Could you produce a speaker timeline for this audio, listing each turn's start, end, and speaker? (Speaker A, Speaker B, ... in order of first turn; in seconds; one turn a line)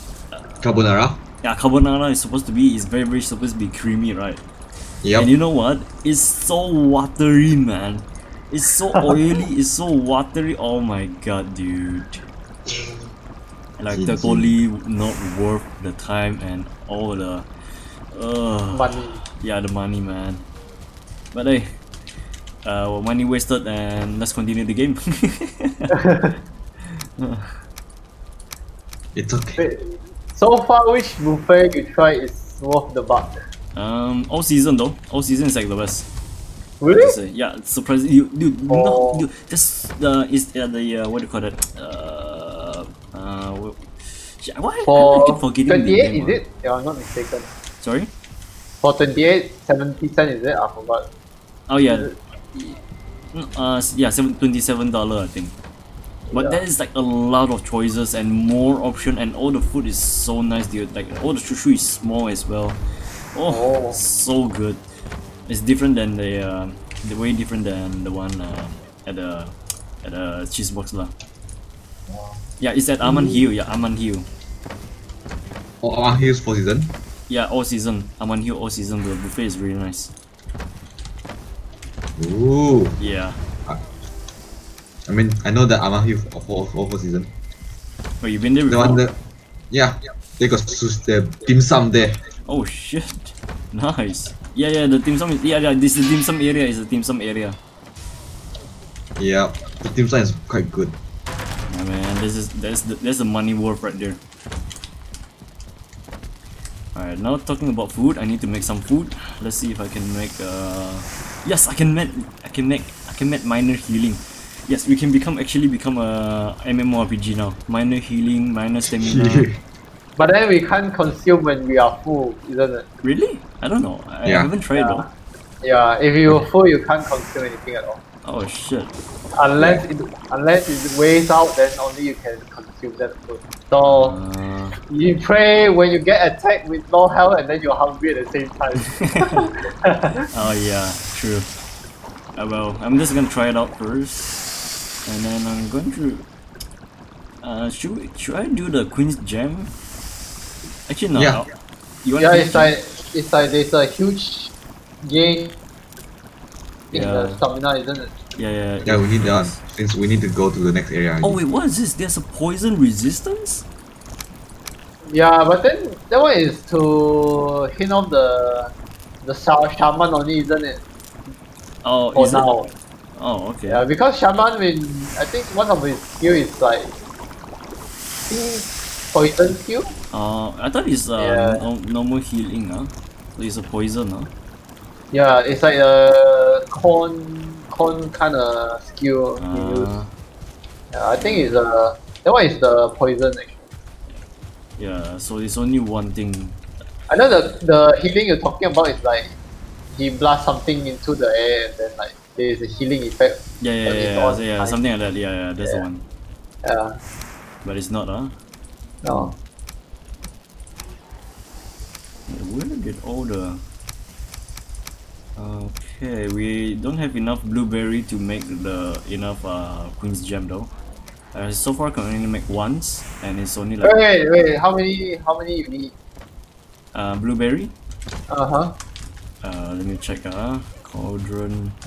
Speaker A: 0.3-0.6
Speaker B: 0.6-1.2
Speaker A: 1.4-4.4
Speaker B: 5.0-5.3
Speaker A: 5.1-12.2
Speaker C: 12.7-13.1
Speaker A: 13.8-17.5
Speaker B: 13.9-14.5
Speaker A: 18.1-20.4
Speaker C: 18.7-19.2
Speaker A: 21.3-21.7
Speaker A: 22.6-26.0
Speaker C: 26.0-26.3
Speaker A: 26.9-27.5
Speaker B: 29.1-29.6
Speaker C: 29.6-33.3
Speaker A: 33.7-36.1
Speaker C: 36.8-37.1
Speaker A: 36.9-46.4
Speaker C: 38.7-39.2
Speaker C: 44.8-47.5
Speaker A: 47.8-48.1
Speaker C: 48.8-51.1
Speaker A: 51.7-52.8
Speaker A: 53.3-55.5
Speaker C: 56.3-56.6
Speaker A: 56.3-64.8
Speaker C: 63.5-64.0
Speaker A: 65.5-71.1
Speaker C: 72.1-72.4
Speaker A: 72.6-74.3
Speaker B: 73.0-73.4
Speaker B: 75.8-76.9
Speaker A: 77.3-80.1
Speaker B: 82.2-83.0
Speaker A: 83.0-83.4
Speaker B: 85.1-87.3
Speaker A: 88.2-89.0
Speaker B: 88.7-89.2
Speaker B: 89.7-92.2
Speaker A: 92.4-97.6
Speaker B: 99.2-101.0
Speaker A: 101.7-104.2
Speaker A: 106.9-119.5
Speaker B: 119.0-119.6
Speaker C: 120.2-122.8
Speaker A: 123.0-125.1
Speaker B: 124.2-124.5
Speaker C: 124.8-125.1
Speaker C: 125.6-128.0
Speaker A: 128.2-128.9
Speaker C: 129.3-134.1
Speaker B: 129.6-129.8
Speaker A: 133.8-134.8
Speaker C: 134.9-140.3
Speaker A: 139.0-139.5
Speaker A: 140.3-141.5
Speaker A: 142.3-146.3
Speaker A: 147.4-149.7
Speaker A: 150.9-151.5
Speaker B: 151.2-151.4
Speaker A: 152.0-152.7
Speaker C: 152.2-155.6
Speaker A: 156.9-157.4
Speaker C: 156.9-158.1
Speaker A: 158.4-159.6
Speaker B: 158.8-161.4
Speaker A: 161.2-163.7
Speaker C: 165.0-168.7
Speaker C: 169.2-170.8
Speaker A: 171.8-172.5
Speaker C: 172.1-172.7
Speaker A: 173.2-173.9
Speaker C: 173.7-176.9
Speaker C: 178.3-179.9
Speaker A: 180.1-184.3
Speaker C: 181.2-181.6
Speaker C: 185.1-189.9
Speaker A: 189.4-190.1
Speaker C: 190.9-193.6
Speaker A: 191.2-191.5
Speaker A: 194.8-196.6
Speaker C: 197.1-199.3
Speaker C: 199.9-204.8
Speaker A: 203.6-206.0
Speaker C: 206.6-207.0
Speaker A: 207.6-208.3
Speaker C: 209.0-209.3
Speaker A: 212.3-213.6
Speaker A: 215.3-220.7
Speaker A: 221.3-224.0
Speaker C: 223.8-225.9
Speaker A: 226.9-227.7
Speaker C: 228.3-228.8
Speaker A: 229.4-231.8